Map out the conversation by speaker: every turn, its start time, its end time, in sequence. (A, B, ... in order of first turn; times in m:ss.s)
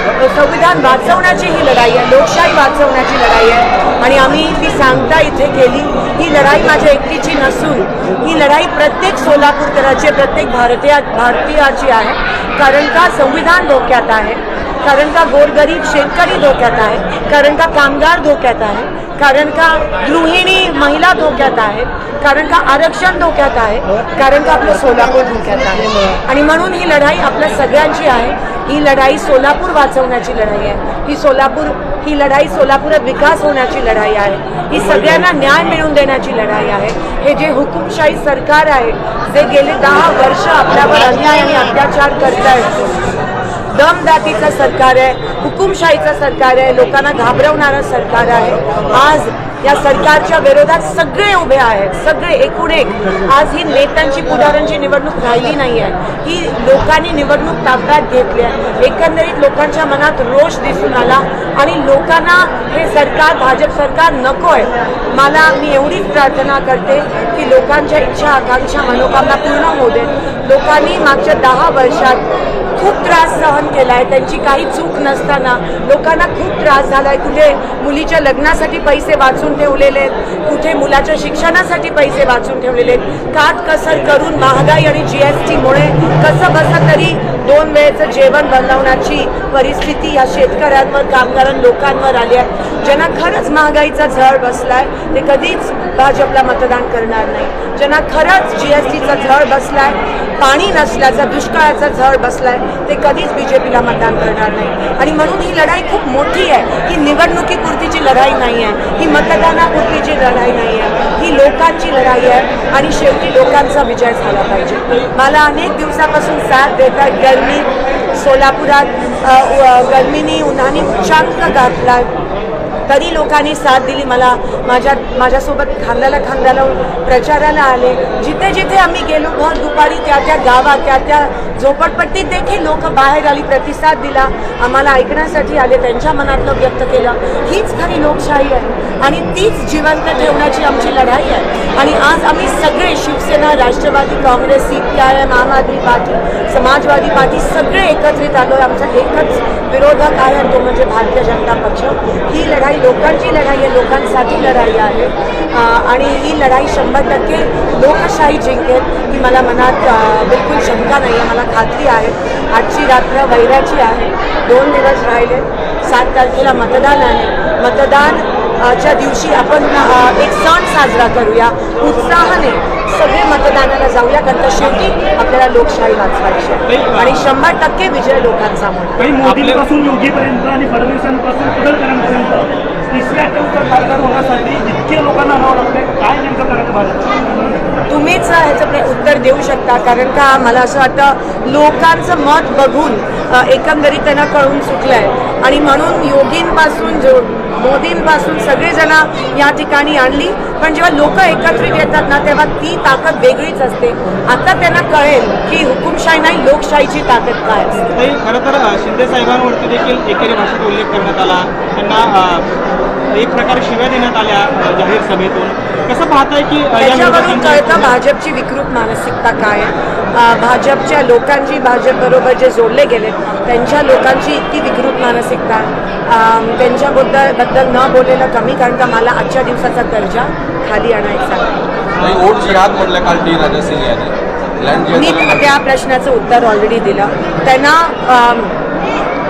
0:00.1-0:42.8 A
0:43.7-1:12.2 A
1:12.8-2:02.2 A
2:02.9-2:59.0 A
2:56.7-2:57.3 B
2:59.0-3:07.6 C
2:59.2-2:59.6 B
3:07.9-3:27.9 A
3:27.9-3:32.5 B
3:33.1-3:37.9 B
3:36.8-3:51.5 A
3:52.0-3:55.6 D
3:54.9-3:58.6 A